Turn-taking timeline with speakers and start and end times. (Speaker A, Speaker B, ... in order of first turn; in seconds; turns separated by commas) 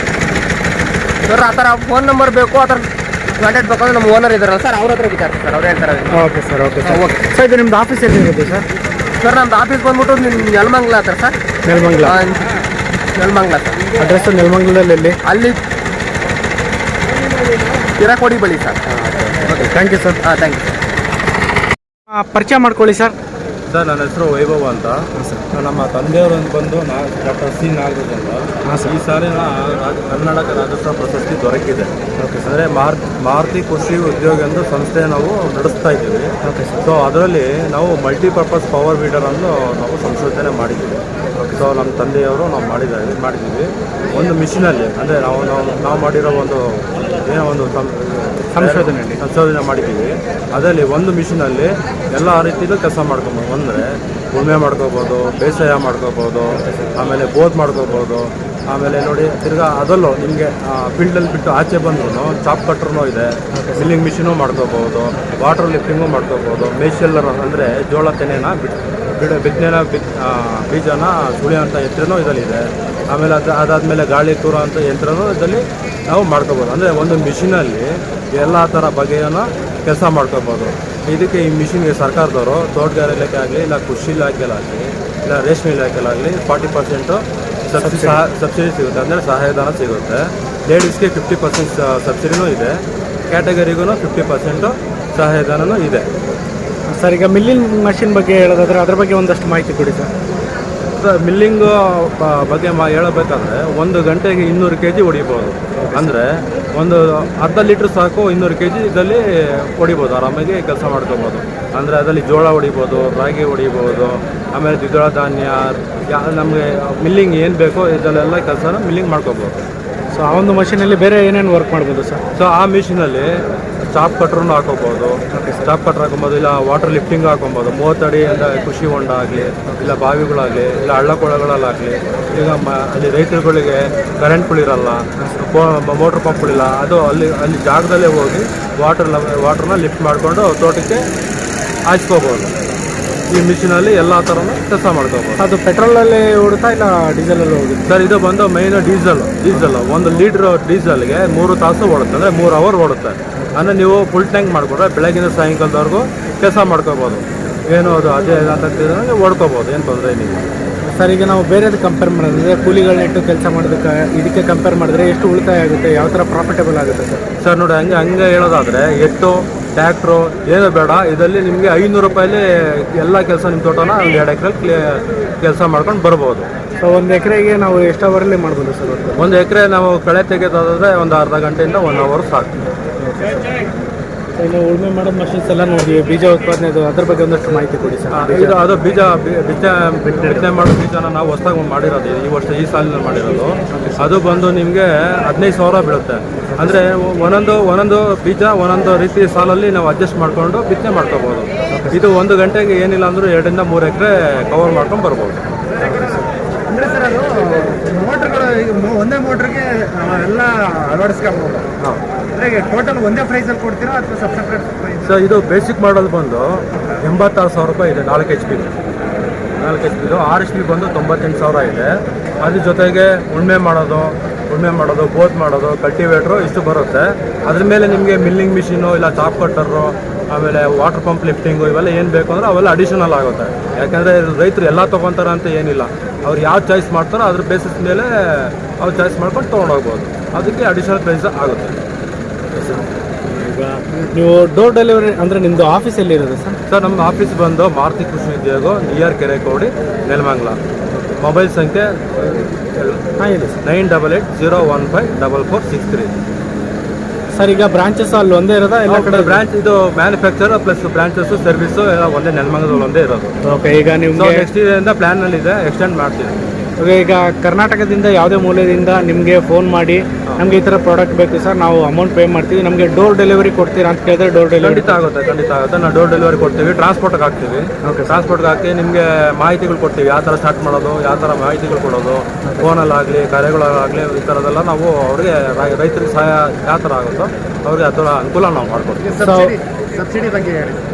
Speaker A: 1.2-2.9, Speaker A: 3.4-6.2, Speaker B: 6.1-8.7, Speaker A: 6.8-7.2, Speaker A: 9.2-11.4, Speaker B: 11.7-12.2, Speaker A: 12.0-12.5, Speaker A: 13.2-13.8, Speaker B: 14.0-15.2, Speaker A: 15.2-15.6, Speaker A: 18.0-18.8, Speaker B: 19.4-20.2, Speaker A: 20.2-20.7, Speaker B: 22.1-23.1, Speaker C: 23.7-25.0, Speaker B: 25.2-25.4, Speaker C: 25.5-31.9, Speaker B: 28.7-28.9, Speaker B: 32.2-32.5, Speaker C: 32.5-41.0, Speaker B: 36.4-36.8, Speaker B: 41.4-41.6, Speaker C: 41.6-92.8, Speaker B: 48.5-49.2, Speaker B: 56.5-56.9, Speaker B: 63.5-63.9, Speaker B: 87.8-88.2, Speaker C: 93.3-96.1, Speaker B: 96.9-100.1, Speaker C: 101.0-119.6, Speaker B: 105.8-106.1, Speaker B: 120.1-122.2, Speaker C: 122.3-123.3, Speaker C: 123.9-141.0, Speaker B: 125.3-125.7, Speaker C: 141.9-142.5, Speaker C: 143.3-145.4, Speaker B: 145.4-147.8, Speaker C: 147.9-160.4, Speaker B: 160.8-167.2, Speaker C: 167.4-176.5, Speaker B: 176.8-179.2, Speaker C: 179.2-182.6, Speaker B: 183.0-183.4, Speaker B: 184.4-188.6, Speaker C: 188.1-205.4, Speaker B: 193.7-194.1, Speaker B: 196.5-196.8, Speaker B: 201.7-202.0, Speaker B: 205.8-206.3, Speaker D: 206.7-211.7, Speaker D: 212.4-215.0, Speaker C: 215.0-218.8, Speaker C: 219.6-241.8, Speaker B: 242.5-246.6, Speaker C: 246.7-250.6, Speaker C: 251.2-253.0, Speaker B: 253.2-253.6, Speaker C: 253.6-256.1, Speaker B: 257.3-259.4, Speaker C: 258.9-263.3, Speaker B: 263.4-264.5, Speaker C: 264.1-266.4, Speaker B: 266.8-275.0, Speaker C: 274.6-289.2, Speaker B: 277.8-278.2, Speaker D: 289.1-290.8, Speaker B: 289.2-289.6